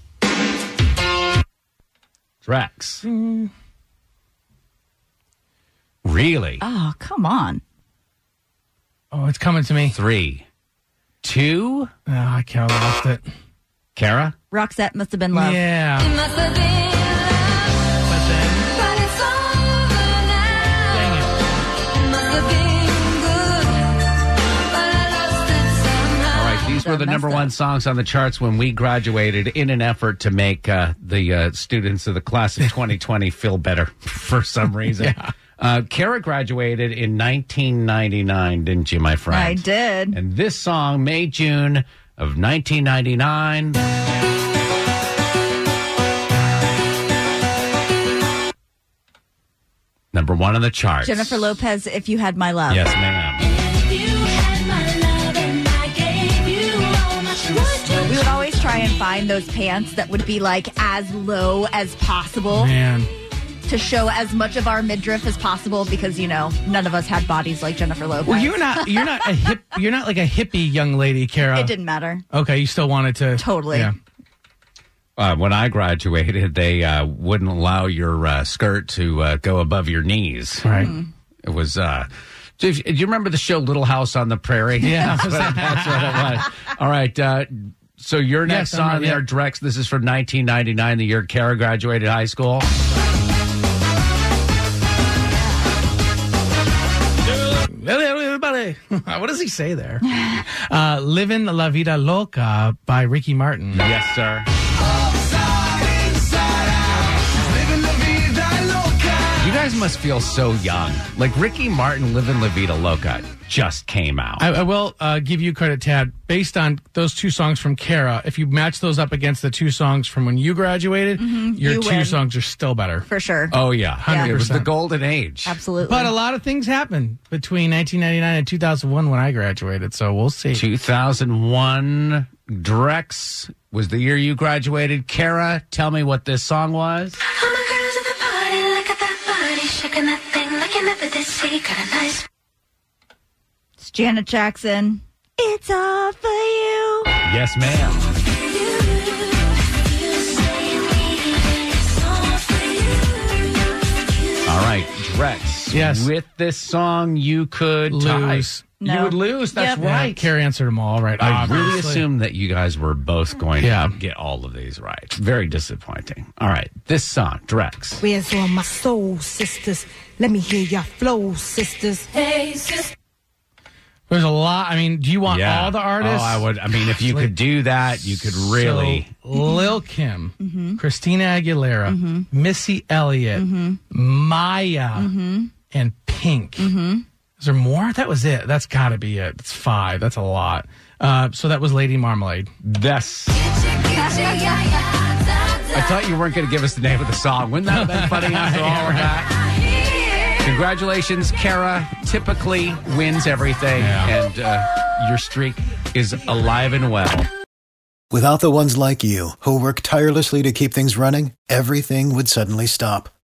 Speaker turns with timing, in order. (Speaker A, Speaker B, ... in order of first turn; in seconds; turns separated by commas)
Speaker A: 2.5-3.0, Speaker B: 3.0-3.5, Speaker A: 6.0-6.6, Speaker C: 6.6-7.6, Speaker B: 9.1-10.0, Speaker A: 9.9-10.5, Speaker A: 11.2-11.9, Speaker B: 12.1-13.3, Speaker A: 14.0-14.3, Speaker C: 14.5-15.6, Speaker B: 15.3-16.2, Speaker D: 16.0-17.9, Speaker B: 18.1-18.8, Speaker D: 18.8-21.0, Speaker B: 20.9-21.4, Speaker D: 21.9-24.0, Speaker D: 24.7-26.7, Speaker A: 26.3-43.8, Speaker C: 26.8-27.5, Speaker C: 39.3-40.2, Speaker A: 50.1-51.5, Speaker C: 51.0-52.8, Speaker A: 52.7-53.5, Speaker D: 53.4-58.3, Speaker C: 58.1-62.7, Speaker B: 62.5-63.1, Speaker C: 63.7-69.1, Speaker B: 68.2-71.7, Speaker C: 71.5-72.2, Speaker B: 72.3-74.0, Speaker C: 73.4-73.9, Speaker A: 75.2-80.7, Speaker B: 80.6-81.0, Speaker A: 81.4-92.7, Speaker B: 84.8-86.3, Speaker B: 88.5-89.3, Speaker B: 97.5-103.8, Speaker A: 103.7-104.5, Speaker B: 107.9-108.6, Speaker A: 109.4-114.5, Speaker B: 114.4-123.1, Speaker C: 121.2-122.2, Speaker C: 123.1-124.3, Speaker A: 123.5-125.5, Speaker B: 124.0-124.7, Speaker C: 125.5-126.1, Speaker B: 125.8-130.6, Speaker A: 130.5-137.2, Speaker D: 137.3-142.2, Speaker C: 143.8-147.1, Speaker A: 147.2-148.1, Speaker D: 148.6-153.5, Speaker A: 154.5-160.3, Speaker B: 155.7-156.1, Speaker B: 157.9-158.7, Speaker C: 158.8-159.8, Speaker B: 159.8-162.0, Speaker A: 161.2-168.0, Speaker B: 163.6-164.0, Speaker E: 168.0-172.9, Speaker B: 174.1-177.4, Speaker A: 175.3-179.1, Speaker B: 178.1-185.1, Speaker C: 179.3-179.7, Speaker C: 180.4-180.8, Speaker C: 181.8-182.3, Speaker C: 183.3-183.8, Speaker C: 185.0-185.5, Speaker B: 185.7-186.7, Speaker C: 186.6-187.1, Speaker B: 187.4-192.5, Speaker A: 192.6-193.5, Speaker A: 195.7-199.3, Speaker B: 197.7-199.1, Speaker A: 200.4-207.3, Speaker B: 203.8-204.1, Speaker F: 208.1-213.1